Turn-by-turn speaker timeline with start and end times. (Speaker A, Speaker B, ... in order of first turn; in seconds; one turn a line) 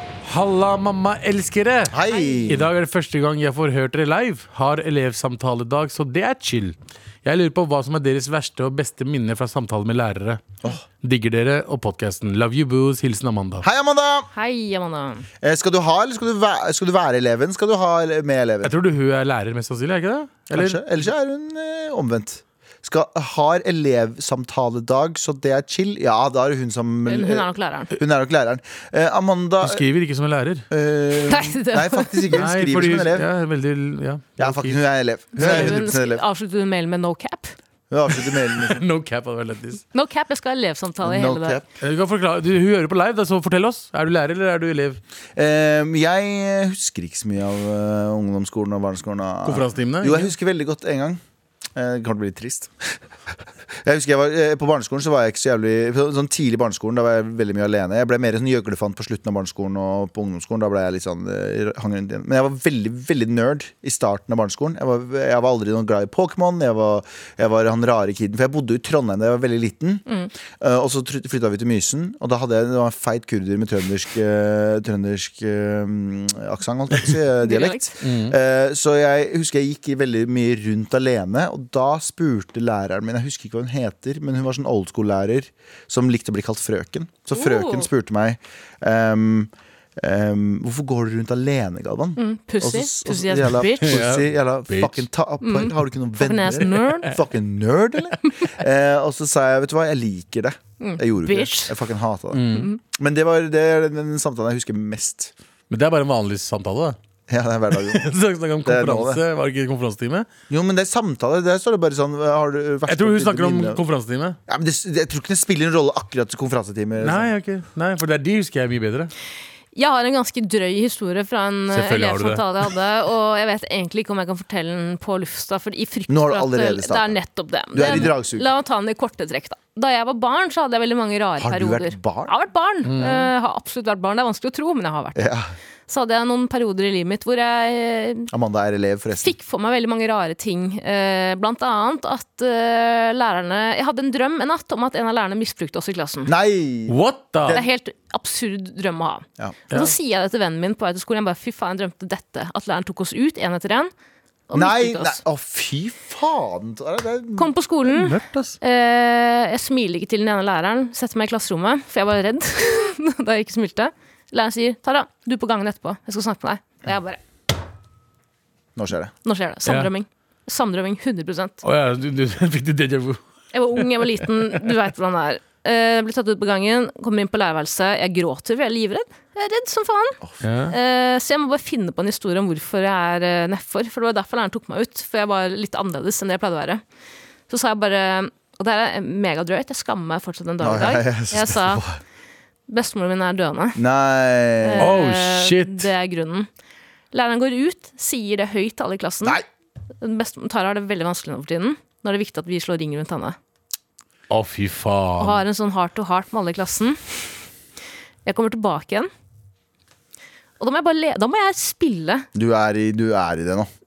Speaker A: 0.2-10.4
Speaker B: 1.9-2.7
Speaker A: 11.0-13.7
Speaker B: 13.6-14.3
Speaker C: 14.3-15.3
Speaker B: 15.4-18.7
Speaker A: 18.6-20.8
Speaker B: 20.5-29.8
Speaker C: 27.1-28.0
Speaker A: 29.6-30.7
Speaker B: 30.7-33.3
Speaker C: 31.3-32.3
Speaker A: 32.3-34.8
Speaker B: 34.4-36.2
Speaker C: 35.4-37.5
Speaker A: 35.4-35.8
Speaker B: 37.9-38.8
Speaker A: 38.6-39.8
Speaker C: 39.9-41.6
Speaker B: 41.0-41.6
Speaker A: 41.8-45.0
Speaker B: 45.4-51.2
Speaker A: 49.5-50.3
Speaker B: 51.8-53.0
Speaker B: 53.8-70.0
Speaker B: 70.6-105.3
Speaker C: 77.4-77.9
Speaker A: 78.0-78.3
Speaker C: 87.3-87.9
Speaker C: 92.2-94.0
Speaker A: 93.8-95.1
Speaker C: 95.4-97.1
Speaker C: 100.8-101.8
Speaker A: 102.3-102.7
Speaker A: 105.7-107.0
Speaker B: 107.3-108.1
Speaker A: 107.9-110.3
Speaker B: 108.6-109.2
Speaker B: 110.5-113.8
Speaker A: 112.9-114.4
Speaker B: 114.5-117.3
Speaker A: 117.0-119.1
Speaker C: 119.8-135.3
Speaker A: 121.7-122.5
Speaker B: 126.1-127.2
Speaker B: 127.7-128.5
Speaker A: 127.8-128.1
Speaker B: 131.4-132.3
Speaker A: 132.8-133.3
Speaker B: 135.2-135.5
Speaker C: 135.9-138.3
Speaker B: 138.3-139.3
Speaker C: 139.2-146.3
Speaker B: 146.3-147.7
Speaker A: 146.9-147.6
Speaker C: 147.5-153.9
Speaker C: 154.5-155.2
Speaker B: 154.5-157.5
Speaker C: 157.4-167.2
Speaker A: 157.9-158.6
Speaker B: 168.8-169.1
Speaker C: 169.2-171.6
Speaker A: 169.7-169.9
Speaker A: 171.6-173.2
Speaker C: 173.5-186.8
Speaker A: 180.4-180.8
Speaker C: 187.5-191.8
Speaker B: 190.6-192.0
Speaker C: 192.7-193.8
Speaker B: 193.8-194.9
Speaker C: 194.6-196.5
Speaker A: 194.8-195.9
Speaker C: 197.1-199.4
Speaker C: 200.0-203.4
Speaker A: 204.3-205.4
Speaker C: 205.2-207.4
Speaker C: 208.2-209.1
Speaker C: 210.6-212.3
Speaker B: 212.3-213.7